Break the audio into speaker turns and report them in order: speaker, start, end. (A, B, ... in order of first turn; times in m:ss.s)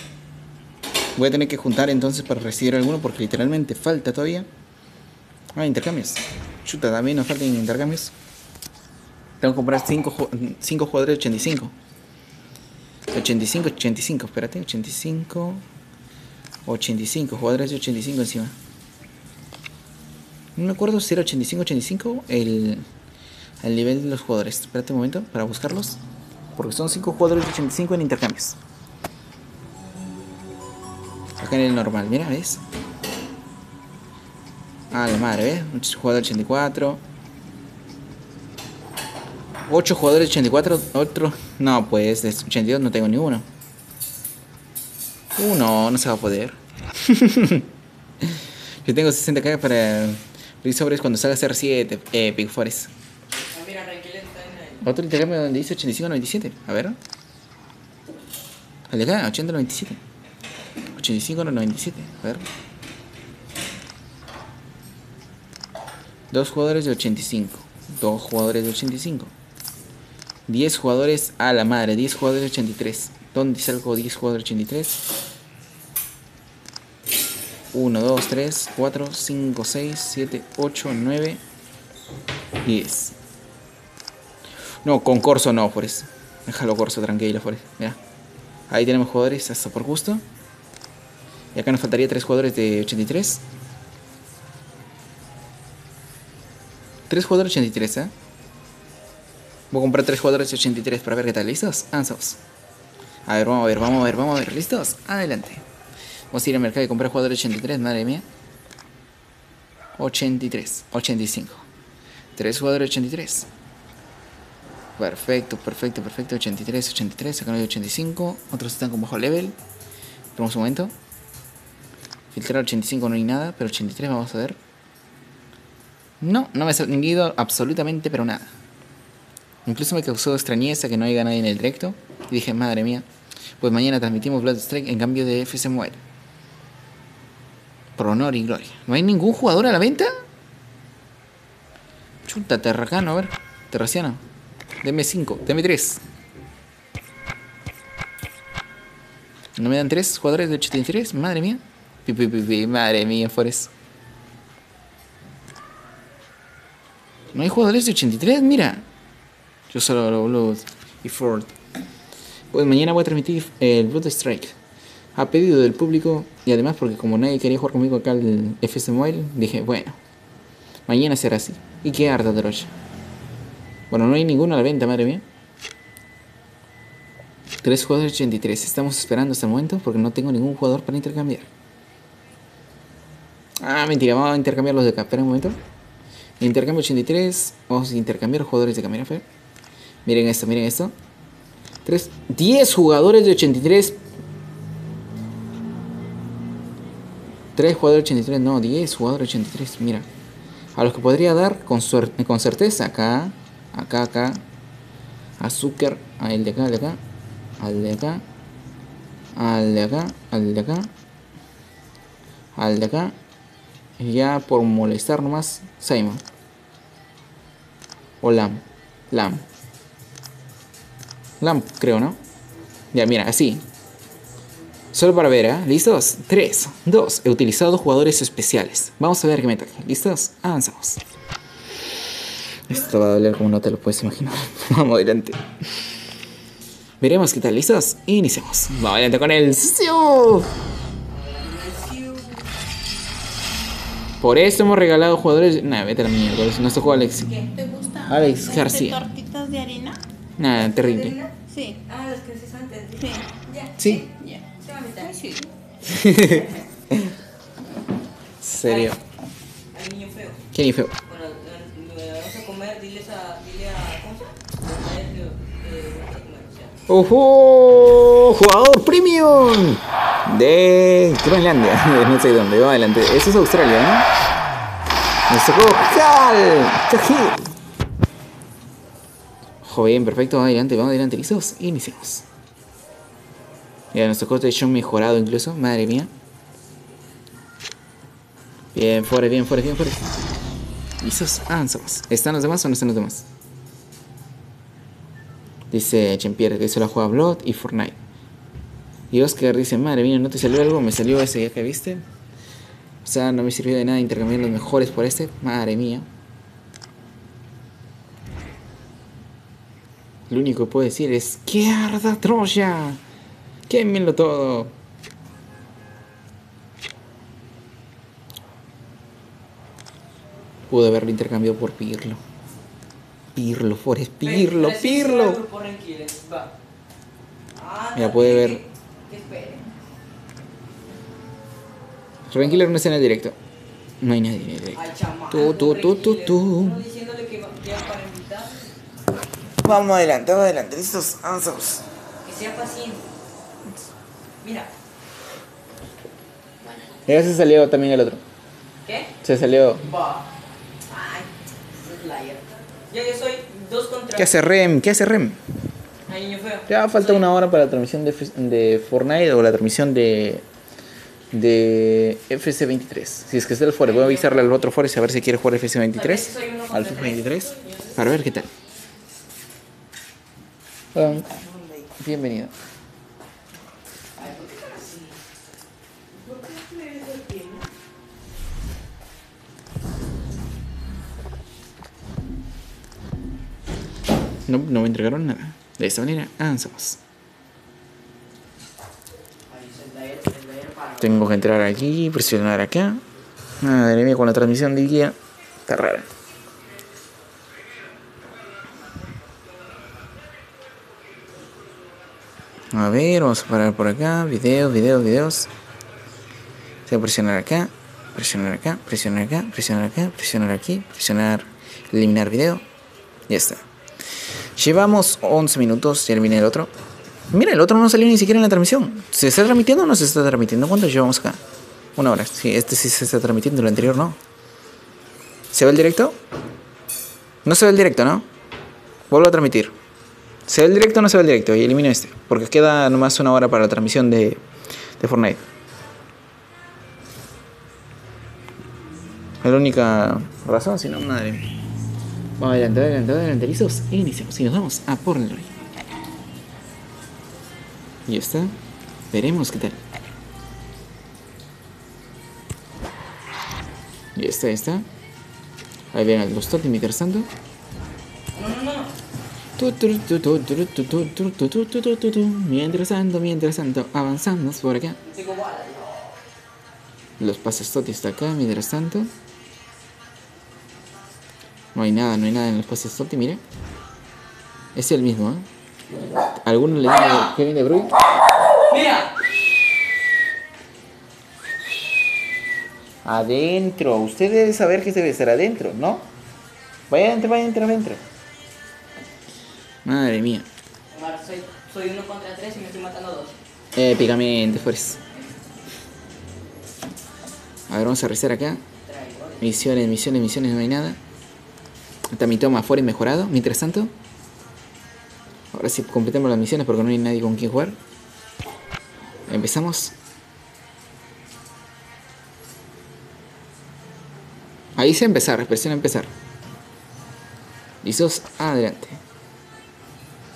0:01.1-0:04.5 A
0:05.5-0:08.1 A
0:09.4-0:11.7 A
0:13.1-0:15.6 A
0:16.6-0:18.5 A
0:20.6-0:22.8 A
0:23.6-0:26.0 A
0:26.6-0:28.6 A
0:31.4-0:32.6 A
0:34.9-0:37.0 A
0:39.7-0:43.4 A
0:45.4-0:47.7 A
0:48.2-0:52.9 A
0:53.5-0:54.8 B
0:54.8-0:57.0 A
0:58.9-1:00.0 A
1:00.9-1:02.4 A
1:06.3-1:09.3 A
1:10.5-1:15.0 A
1:17.7-1:21.4 A
1:22.6-1:23.2 A
1:24.8-1:28.0 A
1:28.7-1:30.2 A
1:31.5-1:33.4 A
1:37.1-1:38.1 A
1:39.7-1:42.4 A
1:43.2-1:45.6 A
1:46.3-1:48.2 A
1:50.0-1:51.6 A
1:52.4-1:53.5 A
1:55.0-1:59.6 A
2:00.3-2:00.9 A
2:02.3-2:04.6 A
2:06.2-2:08.5 A
2:09.6-2:13.0 A
2:13.6-2:16.0 A
2:18.0-2:20.1 A
2:22.2-2:24.2 A
2:24.8-2:26.0 A
2:29.6-2:33.7 A
2:37.3-2:38.8 A
2:39.7-2:41.5 A
2:42.5-2:44.5 A
2:45.1-2:50.0 A
2:50.9-2:52.7 A
2:53.9-2:55.2 A
2:57.6-3:01.5 A
3:03.6-3:05.6 A
3:06.4-3:09.2 A
3:10.0-3:10.9 A
3:11.8-3:14.0 A
3:17.6-3:20.1 A
3:20.7-3:24.4 A
3:25.4-3:27.0 A
3:27.6-3:28.2 A
3:29.4-3:30.9 A
3:32.6-3:33.2 A
3:34.0-3:36.2 A
3:38.2-3:39.4 A
3:41.4-3:42.2 A
3:42.9-3:43.6 A
3:44.9-3:51.0 A
3:52.7-3:55.4 A
3:57.0-4:00.5 A
4:01.1-4:02.5 B
4:04.2-4:07.3 A
4:07.2-4:10.0 C
4:08.1-4:09.0 A
4:10.4-4:11.2 A
4:10.5-4:15.3 B
4:11.5-4:11.8 C
4:13.0-4:13.3 C
4:13.8-4:14.1 A
4:14.0-4:15.5 C
4:15.8-4:17.1 A
4:18.4-4:19.0 A
4:18.6-4:19.0 B
4:19.7-4:20.4 B
4:20.5-4:20.9 A
4:21.1-4:26.7 B
4:26.9-4:34.0 A
4:35.3-4:37.5 A
4:39.6-4:42.2 A
4:43.9-4:46.1 A
4:48.7-4:50.1 A
4:51.0-4:53.2 A
4:55.7-4:58.0 A
4:59.1-5:02.0 A
5:03.0-5:06.1 A
5:10.3-5:13.0 A
5:13.7-5:14.7 A
5:20.7-5:22.2 A
5:23.4-5:25.4 A
5:24.2-5:26.5 B
5:27.5-5:29.6 B
5:28.0-5:28.6 A
5:32.3-5:33.4 A
5:34.0-5:36.8 A
5:34.7-5:38.7 B
5:39.6-5:41.8 A
5:42.2-5:43.1 B
5:44.4-5:44.7 B
5:46.6-5:47.0 B
5:47.1-5:48.2 A
5:48.8-5:49.1 B
5:49.2-5:49.9 A
5:49.8-5:50.3 B
5:50.8-5:54.4 B
5:54.1-5:55.4 A
5:56.0-5:57.2 B
5:56.7-6:00.4 A
6:01.3-6:08.5 A
6:03.8-6:04.6 B
6:05.9-6:07.9 B
6:10.9-6:11.2 A
6:11.0-6:11.9 B
6:12.0-6:12.5 A
6:14.2-6:15.2 B
6:16.3-6:17.7 B
6:24.5-6:27.0 A
6:29.5-6:31.5 B
6:31.0-6:33.0 A
6:33.6-6:36.1 A
6:42.7-6:45.5 A
6:46.9-6:52.6 A
6:53.3-6:53.6 A
6:54.6-6:56.7 A
6:57.3-7:01.4 A
7:02.0-7:04.2 A
7:05.5-7:06.2 A
7:07.4-7:08.3 A
7:09.1-7:09.7 A
7:10.5-7:14.4 A
7:15.0-7:15.4 A
7:19.4-7:21.4 A
7:22.4-7:25.5 A
7:28.1-7:28.5 A
7:29.1-7:29.8 A
7:34.2-7:34.8 A
7:35.9-7:37.3 A
7:38.3-7:38.9 B
7:39.6-7:45.0 A
7:45.0-7:46.0 B
7:47.2-7:49.1 A
7:51.7-7:53.4 A
7:54.7-7:55.5 A
7:56.3-7:57.9 A
7:58.6-7:59.1 B
8:03.0-8:06.1 A
8:06.9-8:08.0 A
8:09.8-8:10.4 A
8:10.9-8:13.4 B
8:13.8-8:15.0 A
8:17.7-8:18.6 A
8:18.8-8:19.5 B
8:19.4-8:21.0 A
8:22.1-8:23.9 A
8:25.5-8:27.8 A
8:29.3-8:29.9 A
8:34.8-8:36.1 A
8:37.8-8:39.0 A